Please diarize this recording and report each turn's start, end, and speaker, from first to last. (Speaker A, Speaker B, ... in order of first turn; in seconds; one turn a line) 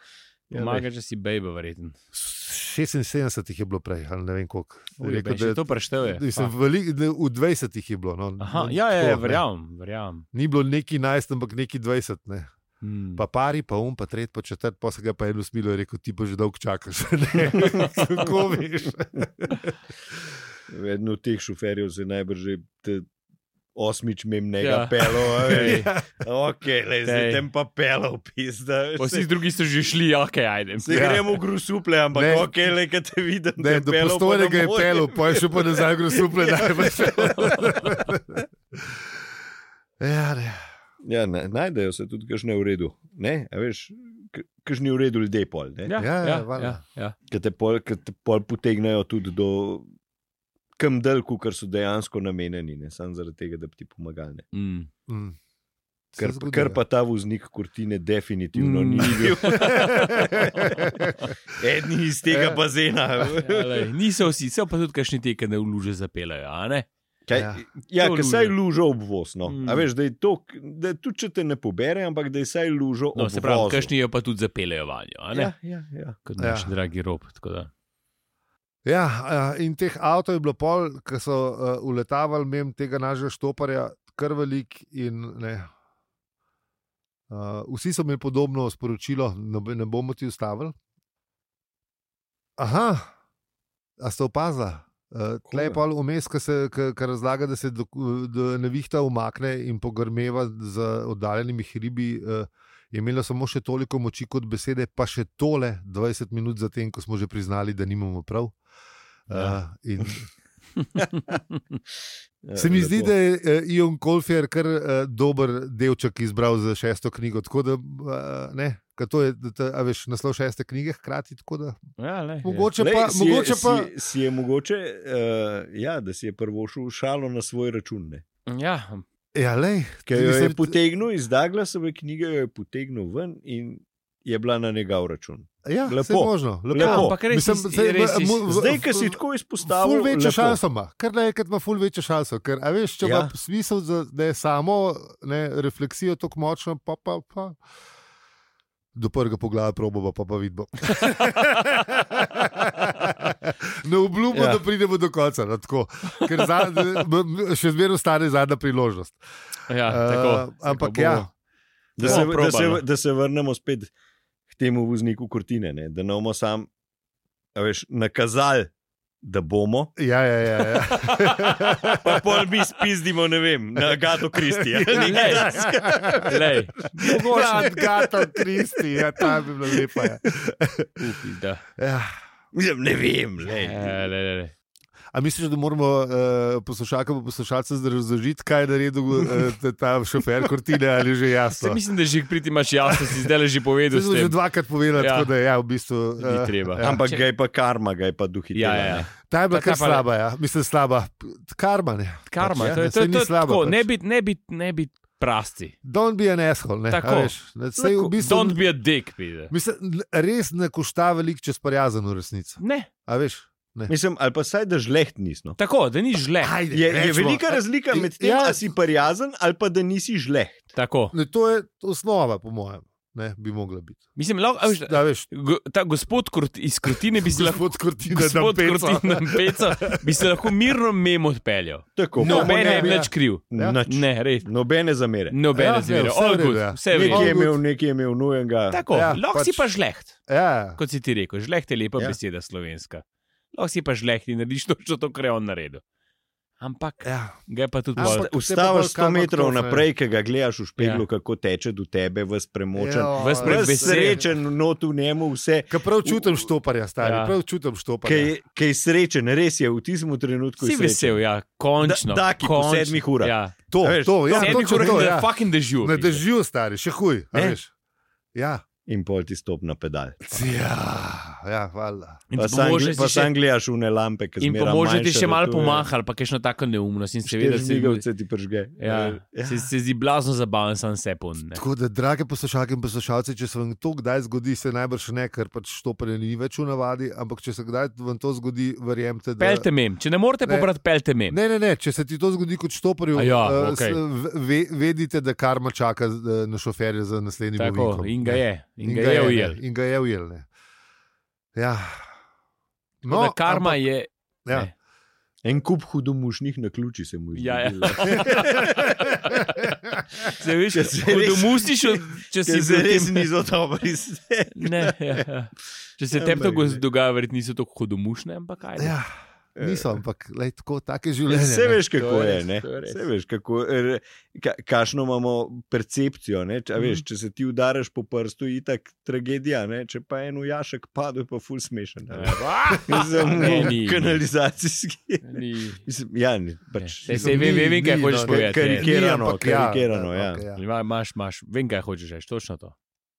Speaker A: 0.5-0.8
Speaker B: 0.5-1.9
Speaker C: 2.1-9.4
Speaker B: 5.0-6.5
Speaker B: 8.4-10.2
Speaker C: 10.3-12.5
Speaker B: 12.8-13.2
Speaker C: 13.1-19.8
Speaker A: 17.4-17.7
Speaker A: 20.7-23.1
Speaker A: 23.8-29.3
Speaker B: 24.6-25.9
Speaker C: 25.5-26.1
Speaker B: 27.0-27.4
Speaker B: 29.0-31.2
Speaker A: 30.8-37.3
Speaker C: 30.9-31.3
Speaker C: 32.1-32.5
Speaker C: 33.6-38.2
Speaker B: 36.8-38.1
Speaker C: 40.0-40.6
Speaker A: 41.0-46.0
Speaker B: 45.9-47.1
Speaker C: 46.0-46.8
Speaker A: 47.3-49.9
Speaker A: 50.8-54.5
Speaker B: 54.5-54.9
Speaker C: 55.1-55.4
Speaker C: 56.1-56.8
Speaker A: 56.2-60.9
Speaker B: 58.5-61.2
Speaker A: 61.5-63.8
Speaker C: 62.3-62.6
Speaker B: 63.4-66.9
Speaker A: 67.3-73.9
Speaker C: 67.3-67.6
Speaker B: 68.0-68.5
Speaker B: 69.5-69.9
Speaker B: 73.1-75.5
Speaker A: 75.3-76.2
Speaker B: 76.2-77.7
Speaker C: 76.4-76.7
Speaker C: 78.8-85.7
Speaker C: 87.3-90.7
Speaker C: 92.6-93.1
Speaker C: 94.0-108.5
Speaker A: 95.5-95.8
Speaker C: 109.3-110.3
Speaker A: 112.4-113.1
Speaker C: 112.5-121.8
Speaker B: 122.0-122.7
Speaker C: 122.4-123.9
Speaker A: 122.8-128.2
Speaker B: 128.5-129.0
Speaker C: 129.3-130.8
Speaker A: 130.1-137.2
Speaker C: 135.6-147.6
Speaker B: 136.7-138.6
Speaker A: 138.5-140.6
Speaker A: 143.0-143.3
Speaker C: 148.9-159.2
Speaker A: 154.3-154.6
Speaker B: 159.7-161.3
Speaker C: 159.8-161.3
Speaker A: 162.0-163.9
Speaker B: 162.0-162.8
Speaker A: 164.5-166.7
Speaker A: 167.5-169.9
Speaker C: 169.9-172.2
Speaker B: 171.0-172.2
Speaker A: 172.0-176.6
Speaker C: 174.3-181.0
Speaker B: 174.9-176.8
Speaker A: 177.1-178.4
Speaker A: 179.2-180.2
Speaker B: 181.0-181.6
Speaker C: 181.8-182.1
Speaker A: 182.5-184.1
Speaker B: 183.4-184.5
Speaker C: 185.1-191.8
Speaker B: 191.5-194.4
Speaker C: 193.9-197.0
Speaker B: 194.9-195.3
Speaker B: 196.2-197.3
Speaker A: 196.8-199.1
Speaker B: 198.5-200.1
Speaker C: 199.3-203.9
Speaker B: 202.2-205.7
Speaker A: 202.6-202.8
Speaker C: 205.8-208.7
Speaker B: 206.9-209.5
Speaker C: 209.5-213.9
Speaker B: 212.6-212.9
Speaker A: 213.9-215.6
Speaker B: 215.6-216.6
Speaker C: 216.4-218.7
Speaker A: 216.7-220.7
Speaker B: 220.7-221.1
Speaker C: 221.1-224.1
Speaker B: 224.2-234.5
Speaker C: 224.7-225.3
Speaker C: 226.9-230.5
Speaker A: 231.9-235.4
Speaker C: 232.2-233.8
Speaker B: 235.3-237.3
Speaker C: 235.5-237.6
Speaker A: 236.9-238.8
Speaker B: 238.7-240.2
Speaker C: 238.9-239.8
Speaker C: 240.3-240.8
Speaker B: 240.8-245.8
Speaker B: 246.6-248.3
Speaker C: 247.0-247.4
Speaker C: 247.9-249.8
Speaker A: 248.0-256.5
Speaker B: 250.8-251.1
Speaker C: 252.7-254.3
Speaker B: 253.1-254.3
Speaker C: 255.7-258.3
Speaker B: 257.0-257.4
Speaker A: 258.0-261.2
Speaker B: 260.6-263.6
Speaker A: 261.8-265.1
Speaker C: 263.7-267.7
Speaker B: 264.2-266.2
Speaker A: 267.3-267.6
Speaker C: 268.3-268.6
Speaker A: 268.9-270.4
Speaker C: 270.3-272.2
Speaker B: 272.3-273.3
Speaker A: 272.4-275.9
Speaker B: 274.4-278.1
Speaker A: 277.3-279.7
Speaker B: 278.8-281.6
Speaker C: 281.5-289.7
Speaker B: 289.4-291.4
Speaker C: 290.4-290.7
Speaker C: 291.3-300.5
Speaker B: 293.1-294.0
Speaker B: 297.6-299.6
Speaker C: 301.5-302.1
Speaker C: 303.0-303.9
Speaker B: 303.1-304.7
Speaker A: 305.4-308.9
Speaker B: 307.3-309.4
Speaker C: 308.3-310.3
Speaker B: 310.2-313.3
Speaker A: 310.7-315.2
Speaker B: 314.5-319.0
Speaker A: 316.1-316.8
Speaker C: 318.8-319.1
Speaker A: 319.6-320.0
Speaker C: 319.6-321.8
Speaker A: 321.3-335.3
Speaker B: 321.9-323.1
Speaker B: 326.8-327.0
Speaker B: 332.1-334.2
Speaker B: 335.2-335.8
Speaker A: 335.8-337.7
Speaker B: 336.8-338.9
Speaker C: 337.1-340.6
Speaker A: 338.2-340.4
Speaker B: 340.5-342.7